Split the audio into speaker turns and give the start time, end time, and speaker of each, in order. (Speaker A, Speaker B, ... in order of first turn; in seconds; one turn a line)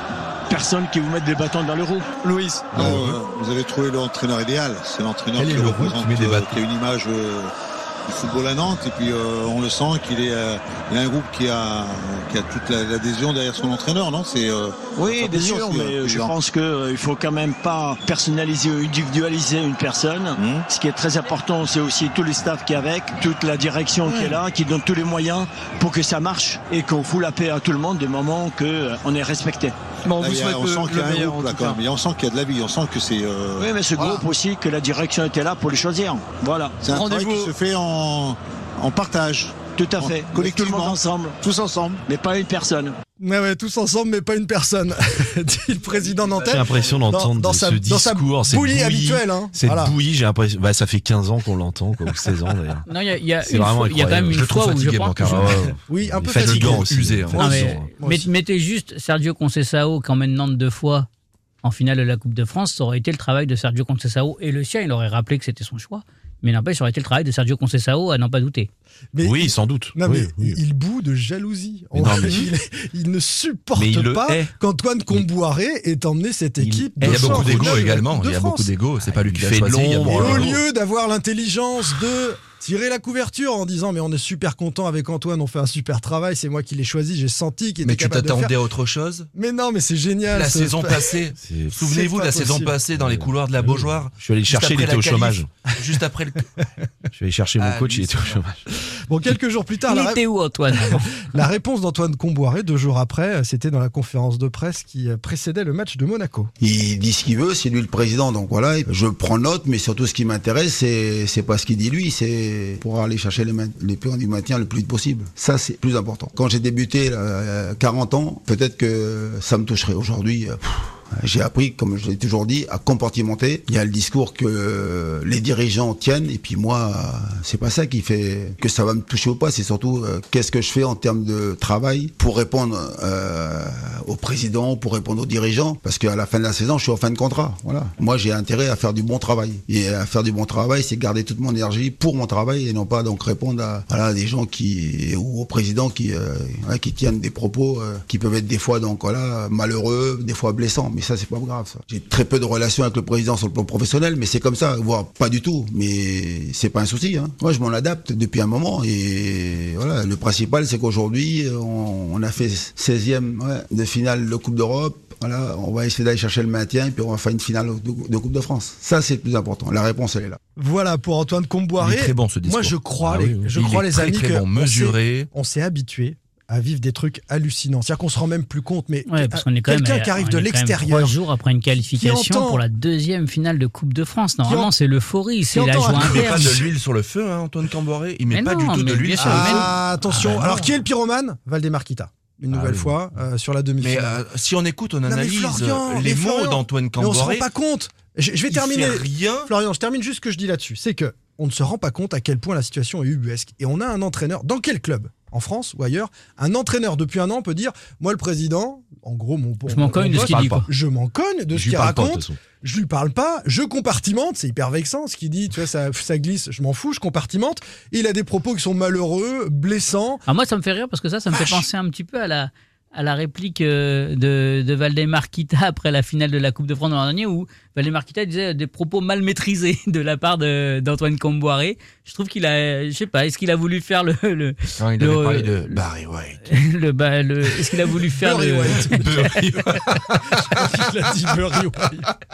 Speaker A: 0.5-2.1
Speaker B: 2.2-2.8
Speaker C: 2.8-7.5
Speaker D: 2.8-3.2
Speaker E: 5.4-6.0
Speaker D: 5.5-6.6
Speaker C: 8.1-16.3
Speaker A: 14.9-29.8
Speaker C: 20.4-20.7
Speaker B: 30.1-31.8
Speaker C: 30.2-34.3
Speaker A: 33.6-36.8
Speaker C: 36.8-42.0
Speaker B: 36.9-37.5
Speaker A: 39.7-41.4
Speaker A: 42.1-43.0
Speaker E: 43.2-50.0
Speaker F: 46.5-52.9
Speaker G: 52.9-55.5
Speaker F: 53.4-54.6
Speaker D: 54.3-55.7
Speaker F: 55.2-57.9
Speaker E: 55.9-58.3
Speaker D: 56.3-57.5
Speaker G: 57.4-61.1
Speaker G: 61.6-68.7
Speaker E: 69.1-78.7
Speaker F: 69.2-70.6
Speaker F: 71.9-72.5
Speaker F: 73.8-74.5
Speaker F: 76.6-78.0
Speaker D: 77.0-80.6
Speaker F: 79.0-80.6
Speaker E: 80.1-88.5
Speaker D: 87.8-89.3
Speaker E: 89.3-91.2
Speaker D: 90.3-96.5
Speaker F: 91.4-91.8
Speaker E: 91.8-92.7
Speaker F: 93.0-95.5
Speaker F: 97.2-98.7
Speaker D: 97.6-98.4
Speaker E: 99.1-100.2
Speaker G: 99.9-101.1
Speaker E: 100.8-106.5
Speaker H: 106.6-170.4
Speaker E: 170.6-181.2
Speaker D: 171.8-172.8
Speaker F: 173.0-173.5
Speaker D: 173.3-175.3
Speaker G: 179.1-186.5
Speaker E: 181.8-182.6
Speaker E: 184.4-184.7
Speaker E: 185.5-186.7
Speaker D: 185.9-189.8
Speaker G: 188.3-190.7
Speaker E: 189.2-194.2
Speaker F: 192.5-193.0
Speaker D: 193.8-197.5
Speaker E: 195.1-220.2
Speaker D: 198.5-199.5
Speaker G: 209.7-210.7
Speaker F: 210.0-210.7
Speaker F: 211.5-212.4
Speaker G: 220.3-235.8
Speaker D: 234.8-236.4
Speaker G: 236.4-239.4
Speaker E: 238.2-239.3
Speaker D: 238.9-240.2
Speaker E: 240.3-242.1